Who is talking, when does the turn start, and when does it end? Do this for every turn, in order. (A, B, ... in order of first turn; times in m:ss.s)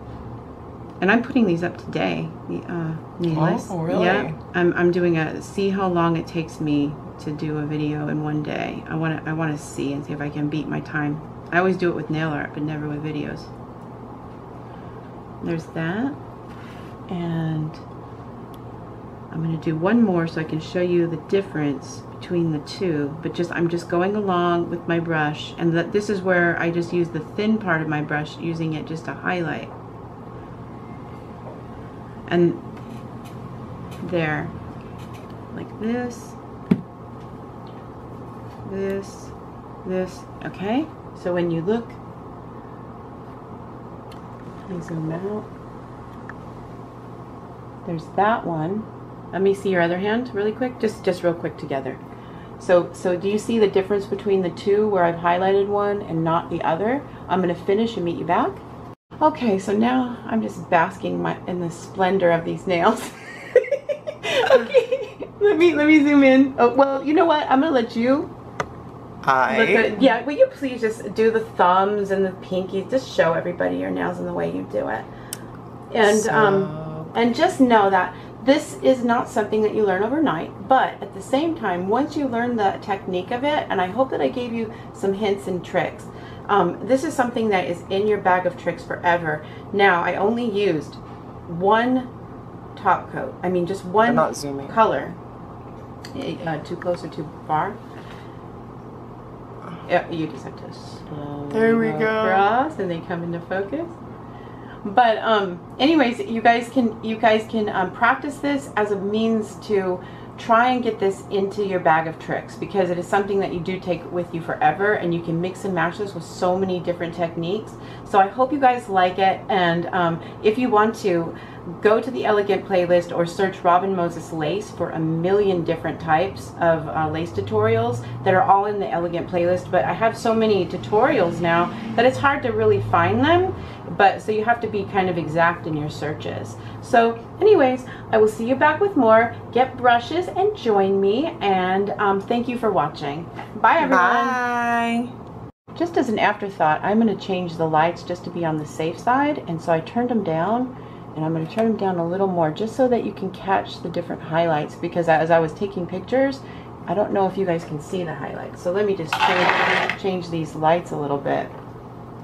0:01.0-0:13.5 A
0:03.3-0:04.4 B
0:15.4-0:16.2 A
0:17.1-0:17.8 A
0:19.3-0:29.7 A
0:32.3-0:32.6 A
0:34.0-0:34.5 A
0:35.5-0:36.4 A
0:38.6-0:42.0 A
0:44.7-0:45.5 A
0:47.8-0:52.0 A
0:52.6-0:58.6 A
0:59.2-1:08.3 A
1:09.2-1:10.0 B
1:09.5-1:15.1 A
1:15.9-1:32.1 A
1:16.1-1:17.1 B
1:32.8-1:35.2 A
1:34.0-1:34.8 B
1:36.1-1:37.8 A
1:39.9-1:43.9 A
1:41.5-1:42.5 B
1:44.8-2:24.4 A
2:23.8-2:25.1 B
2:25.8-2:41.5 A